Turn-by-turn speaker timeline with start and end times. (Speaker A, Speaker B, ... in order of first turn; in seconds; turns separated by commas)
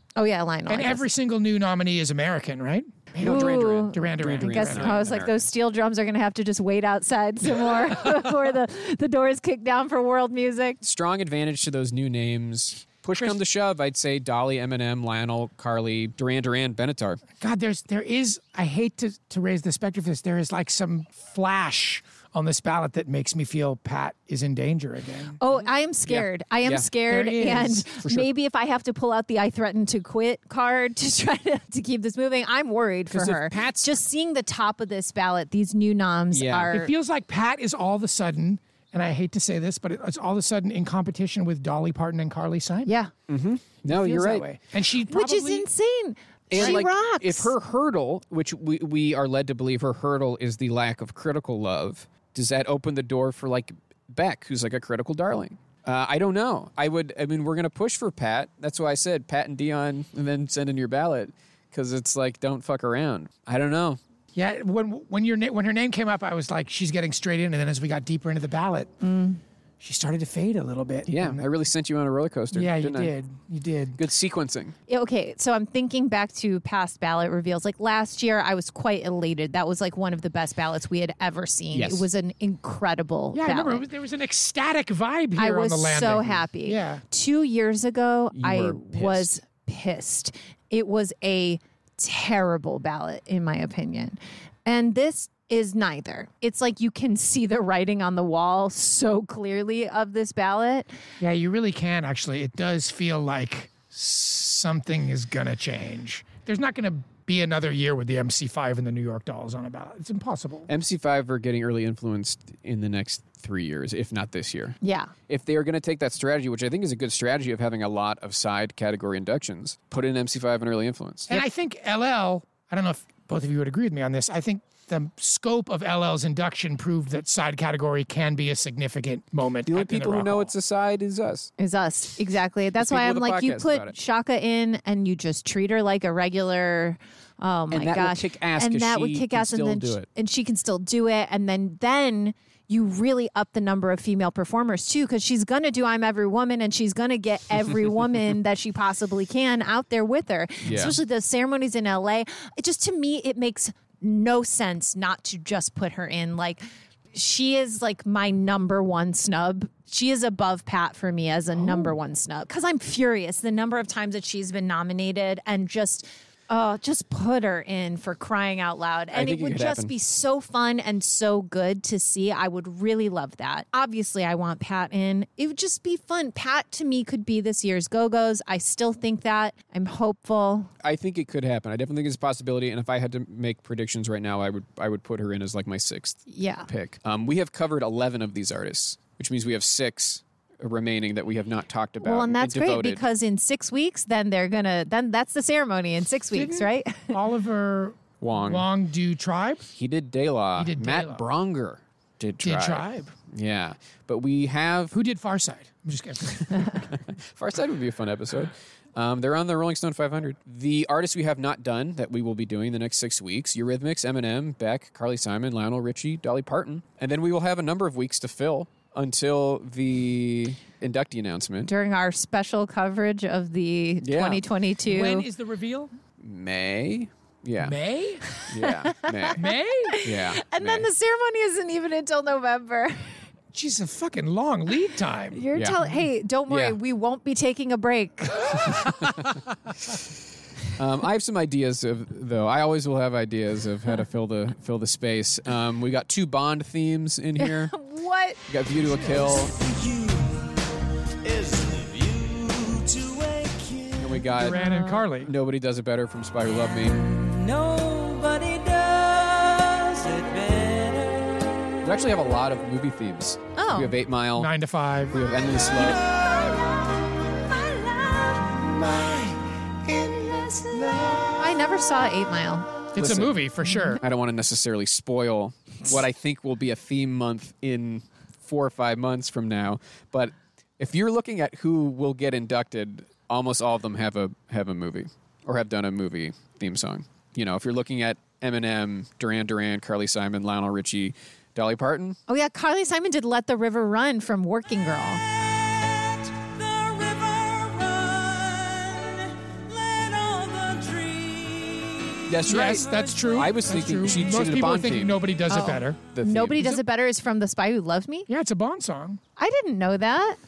Speaker A: 0.2-1.1, Speaker B: 0.7-5.0, Speaker A: 3.2-10.8, Speaker C: 3.2-5.4, Speaker C: 10.8-17.2, Speaker B: 17.4-25.4, Speaker A: 25.4-36.9, Speaker C: 26.1-28.3, Speaker B: 27.1-27.8, Speaker C: 33.1-34.0, Speaker C: 36.3-36.7, Speaker B: 36.7-42.9, Speaker A: 42.9-43.1, Speaker C: 43.3-44.5, Speaker B: 43.8-45.7, Speaker A: 45.1-47.5, Speaker C: 46.5-64.0, Speaker B: 64.3-69.0, Speaker A: 69.0-69.4, Speaker B: 69.8-71.4, Speaker C: 71.1-73.1, Speaker B: 72.5-74.0, Speaker C: 74.0-74.7, Speaker A: 74.9-83.8, Speaker C: 81.7-82.1, Speaker B: 83.3-87.0, Speaker A: 85.4-100.9, Speaker C: 88.3-89.3, Speaker B: 101.2-110.7, Speaker C: 110.7-114.8, Speaker A: 114.8-115.1, Speaker C: 115.3-121.5, Speaker B: 121.3-130.5, Speaker C: 129.7-131.5, Speaker A: 131.6-180.7, Speaker C: 132.8-133.9, Speaker C: 137.7-140.1, Speaker C: 150.6-151.0, Speaker C: 169.1-169.9, Speaker C: 180.8-193.0, Speaker A: 186.3-186.7, Speaker A: 192.0-197.2, Speaker B: 196.3-199.7, Speaker C: 198.2-198.7, Speaker C: 199.8-204.9, Speaker B: 200.6-201.2, Speaker B: 202.4-203.1, Speaker B: 204.9-206.9, Speaker C: 206.4-221.7, Speaker A: 221.7-225.3, Speaker C: 224.0-224.4, Speaker B: 224.9-225.9, Speaker C: 226.2-227.8, Speaker B: 227.6-228.2, Speaker A: 228.4-233.2, Speaker C: 228.4-229.4, Speaker B: 229.3-230.0, Speaker C: 230.0-230.9, Speaker B: 233.5-235.4, Speaker A: 235.3-238.8, Speaker C: 235.6-235.9, Speaker C: 236.5-236.8, Speaker C: 240.8-247.7, Speaker A: 247.4-248.4, Speaker C: 248.5-249.5, Speaker D: 249.0-250.6, Speaker D: 251.2-254.4, Speaker C: 254.0-254.6, Speaker B: 254.4-255.3, Speaker A: 254.6-254.9, Speaker C: 255.2-257.0, Speaker D: 256.9-261.5, Speaker C: 261.8-264.5, Speaker A: 263.6-263.9, Speaker B: 264.4-265.4, Speaker C: 265.1-266.0, Speaker D: 265.6-269.3, Speaker B: 268.7-271.2, Speaker D: 270.2-271.4, Speaker A: 271.4-272.7, Speaker B: 272.9-274.0, Speaker C: 272.9-292.2, Speaker A: 292.3-295.2, Speaker D: 295.6-304.4, Speaker C: 302.3-305.2, Speaker B: 302.5-306.0, Speaker A: 305.5-308.3, Speaker C: 306.1-306.7, Speaker B: 308.3-309.2, Speaker A: 309.4-310.4